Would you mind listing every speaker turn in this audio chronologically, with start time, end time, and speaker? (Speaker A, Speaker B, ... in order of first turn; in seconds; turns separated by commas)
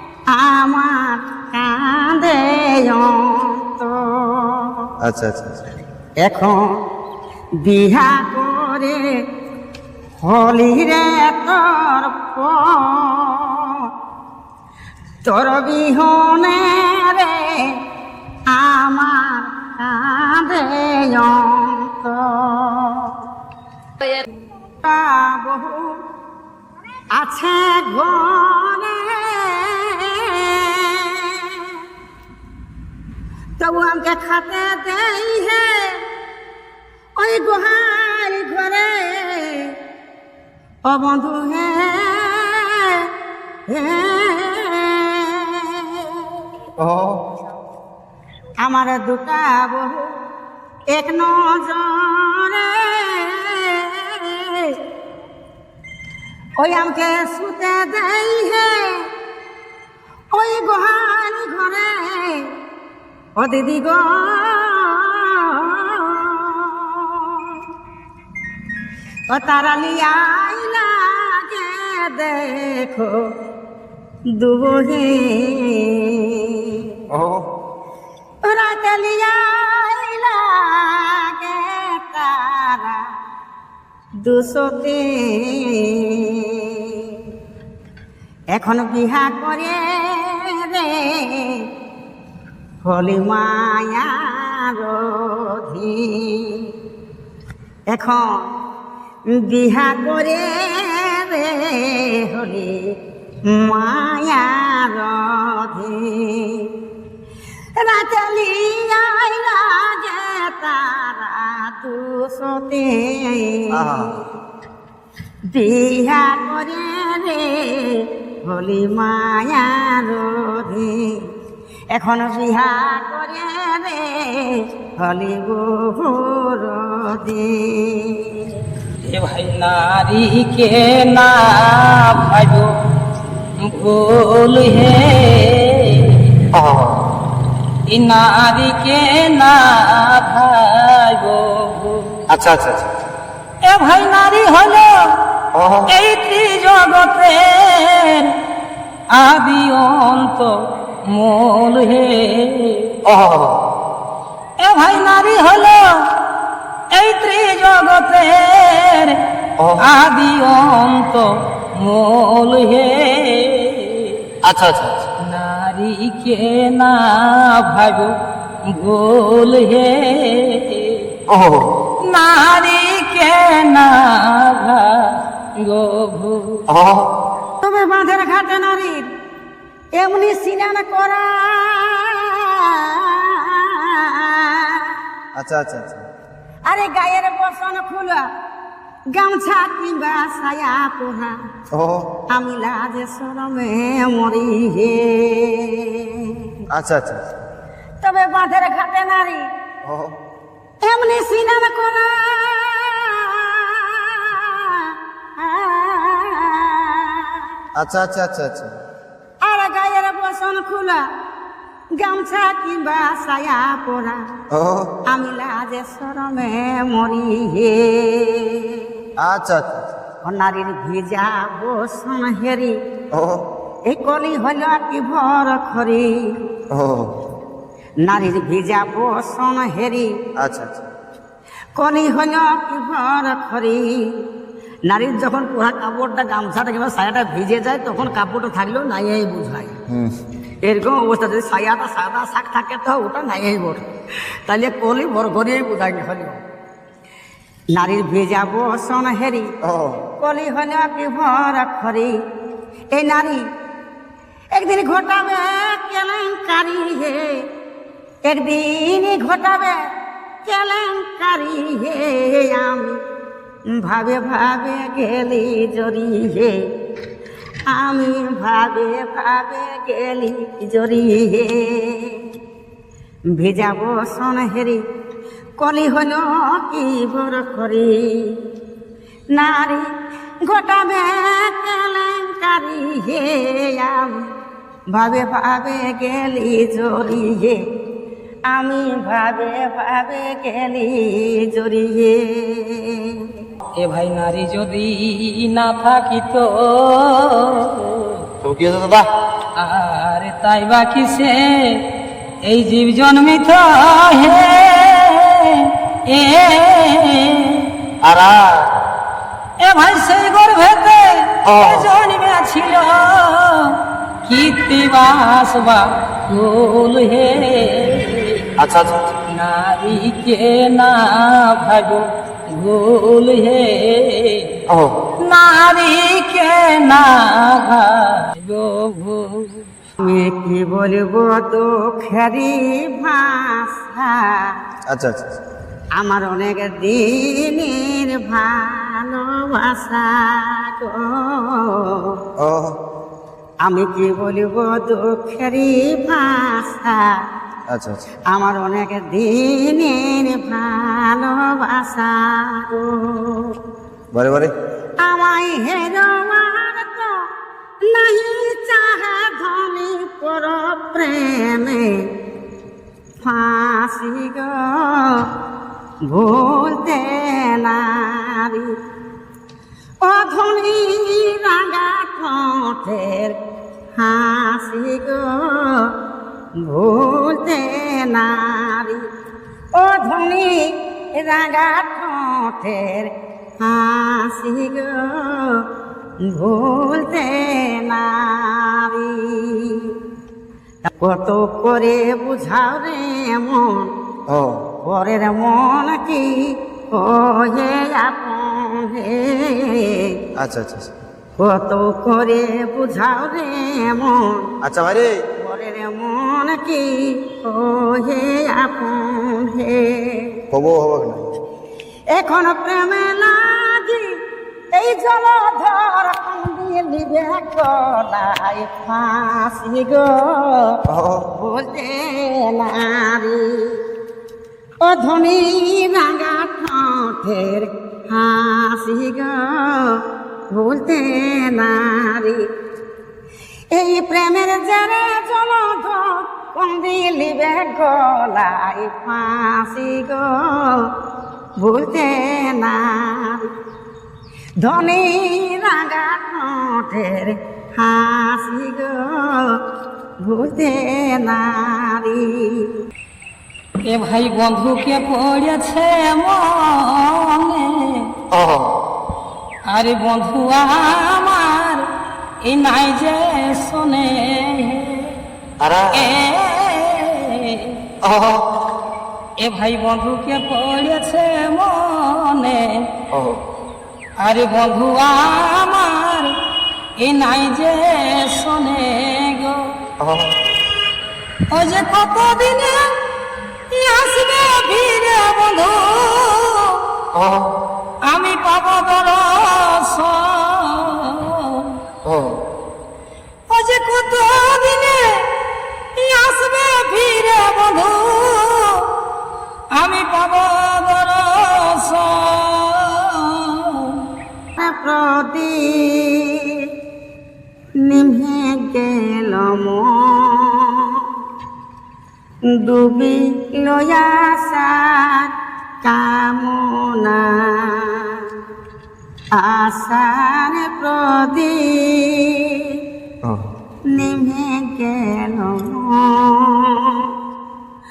Speaker A: 0.3-4.9, Speaker B: 5.0-5.6, Speaker A: 6.2-6.8, Speaker A: 7.6-9.0, Speaker A: 10.2-13.9, Speaker A: 15.2-17.8, Speaker A: 18.5-23.2, Speaker A: 24.8-26.0, Speaker A: 27.1-31.8, Speaker A: 33.6-36.0, Speaker A: 37.2-39.8, Speaker A: 40.9-43.1, Speaker A: 43.7-46.3, Speaker B: 46.8-47.2, Speaker A: 48.6-50.1, Speaker A: 50.9-54.8, Speaker A: 56.6-59.1, Speaker A: 60.4-62.5, Speaker A: 63.4-67.6, Speaker A: 69.3-73.2, Speaker A: 74.4-77.0, Speaker B: 77.1-77.5, Speaker A: 78.4-83.0, Speaker A: 84.2-87.3, Speaker A: 88.5-91.7, Speaker A: 92.8-96.7, Speaker A: 97.9-98.4, Speaker A: 99.4-103.0, Speaker A: 103.5-106.9, Speaker A: 107.8-114.2, Speaker B: 113.7-114.2, Speaker A: 115.5-121.3, Speaker A: 121.9-128.6, Speaker C: 129.0-132.7, Speaker C: 133.6-136.3, Speaker B: 136.5-137.1, Speaker C: 137.9-142.2, Speaker B: 142.3-142.9, Speaker C: 143.6-145.1, Speaker B: 145.5-145.9, Speaker C: 145.9-148.3, Speaker C: 149.1-152.9, Speaker B: 153.1-153.6, Speaker C: 154.6-156.1, Speaker C: 156.9-159.2, Speaker B: 159.6-159.8, Speaker C: 159.8-164.2, Speaker B: 164.4-165.1, Speaker C: 165.2-171.1, Speaker B: 171.3-171.7, Speaker C: 172.0-176.7, Speaker B: 176.7-177.1, Speaker A: 177.6-179.1, Speaker A: 180.0-185.0, Speaker B: 185.3-186.1, Speaker A: 186.7-188.3, Speaker A: 189.2-191.3, Speaker B: 191.7-192.1, Speaker A: 192.3-196.5, Speaker B: 196.7-197.3, Speaker A: 198.0-199.5, Speaker B: 199.8-200.2, Speaker A: 200.8-207.5, Speaker B: 207.8-208.7, Speaker A: 209.4-211.0, Speaker A: 212.0-214.2, Speaker B: 214.5-214.9, Speaker A: 215.1-218.9, Speaker B: 219.2-219.9, Speaker A: 220.2-222.8, Speaker B: 223.1-223.4, Speaker A: 223.9-226.4, Speaker B: 226.7-227.2, Speaker A: 228.1-230.1, Speaker B: 230.4-230.9, Speaker A: 231.8-234.2, Speaker A: 234.9-239.8, Speaker A: 240.6-243.9, Speaker A: 244.5-246.4, Speaker A: 247.7-249.5, Speaker B: 249.7-250.0, Speaker A: 250.2-252.2, Speaker A: 252.9-253.4, Speaker A: 254.5-257.3, Speaker A: 258.2-259.8, Speaker A: 260.4-263.0, Speaker A: 263.8-266.6, Speaker A: 267.7-272.3, Speaker A: 273.4-274.8, Speaker A: 275.6-278.4, Speaker A: 279.3-279.9, Speaker A: 280.5-284.3, Speaker A: 284.9-287.6, Speaker A: 288.5-293.3, Speaker C: 293.8-298.2, Speaker B: 298.4-299.1, Speaker C: 299.6-301.8, Speaker C: 302.4-307.7, Speaker B: 308.0-308.7, Speaker C: 309.6-318.5, Speaker B: 311.5-311.9, Speaker B: 318.6-319.1, Speaker C: 319.3-324.5, Speaker B: 324.7-325.0, Speaker C: 325.2-329.7, Speaker A: 330.0-334.6, Speaker B: 334.9-335.4, Speaker A: 336.0-342.2, Speaker B: 342.4-342.8, Speaker A: 343.6-347.2, Speaker B: 347.7-348.1, Speaker A: 348.3-353.6, Speaker B: 354.1-354.5, Speaker A: 355.0-357.2, Speaker A: 357.9-362.1, Speaker A: 363.2-365.3, Speaker A: 366.1-368.8, Speaker A: 370.0-373.4, Speaker A: 374.0-375.9, Speaker A: 376.6-379.1, Speaker A: 379.8-385.6, Speaker A: 386.3-390.0, Speaker A: 390.9-393.9, Speaker B: 394.3-394.6, Speaker A: 394.8-400.2, Speaker B: 400.4-400.9, Speaker A: 401.4-404.5, Speaker B: 404.6-405.2, Speaker A: 405.4-410.4, Speaker B: 410.5-411.3, Speaker A: 412.1-414.1, Speaker A: 414.7-420.8, Speaker B: 420.9-421.3, Speaker A: 421.3-423.8, Speaker A: 424.8-432.4, Speaker A: 433.7-440.9, Speaker A: 441.6-443.5, Speaker A: 444.6-449.6, Speaker A: 450.2-452.8, Speaker C: 453.9-458.1, Speaker B: 458.3-458.8, Speaker C: 459.7-461.9, Speaker C: 462.4-465.2, Speaker B: 465.6-466.1, Speaker C: 465.9-467.8, Speaker B: 468.0-468.5, Speaker C: 469.4-472.9, Speaker B: 473.1-473.4, Speaker C: 474.2-476.3, Speaker C: 477.0-479.8, Speaker B: 480.0-480.4, Speaker C: 481.5-482.9, Speaker C: 483.7-486.8, Speaker B: 487.1-487.5, Speaker C: 488.0-491.8, Speaker B: 492.1-492.4, Speaker C: 493.5-495.3, Speaker C: 495.9-498.9, Speaker C: 499.7-504.0, Speaker A: 504.6-506.7, Speaker A: 507.8-511.1, Speaker A: 512.6-515.3, Speaker A: 515.8-518.3, Speaker A: 519.3-522.8, Speaker A: 523.9-527.1